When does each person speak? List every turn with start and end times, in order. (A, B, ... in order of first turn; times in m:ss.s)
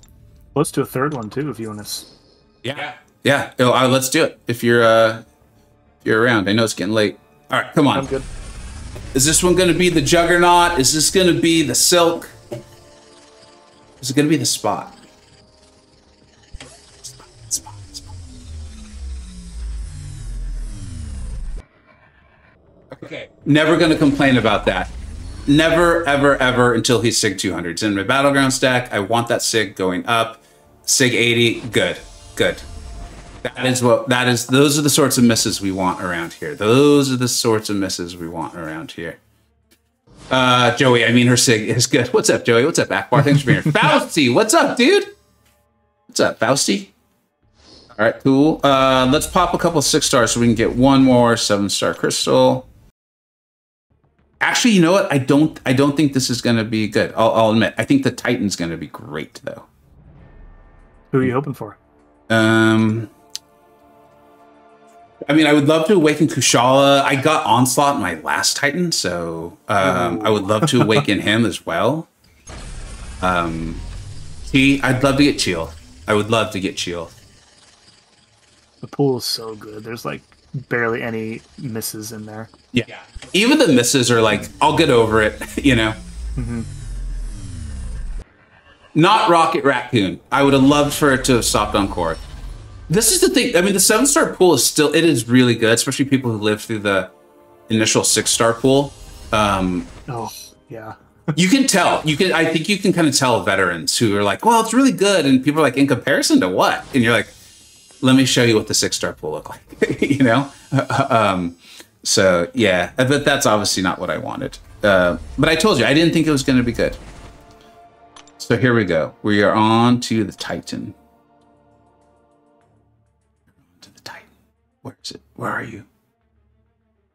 0:00.5-0:02.1 A
0:02.6-0:05.2 B
0:06.0-0:08.1 B
0:07.9-0:08.3 A
0:09.1-0:12.3 B
0:14.0-0:15.0 B
0:17.0-0:18.1 B
0:22.9-0:24.9 B
0:25.4-0:32.6 B
0:33.4-0:39.2 B
0:40.3-0:45.1 B
0:46.1-0:46.9 B
0:48.0-0:52.7 B
0:54.4-0:59.7 B
1:01.1-1:01.8 A
1:02.3-1:03.1 B
1:05.2-1:12.1 B
1:09.8-1:11.0 A
1:13.2-1:13.8 B
1:14.5-1:17.1 B
1:18.8-1:22.5 A
1:22.7-1:26.0 B
1:26.4-1:26.7 A
1:28.9-1:32.2 B
1:32.9-1:37.1 B
1:37.7-1:39.9 B
1:40.1-1:41.0 A
1:41.4-1:47.3 B
1:48.0-1:57.0 B
1:58.4-2:01.0 B
2:03.6-2:04.3 B
2:04.8-2:05.9 B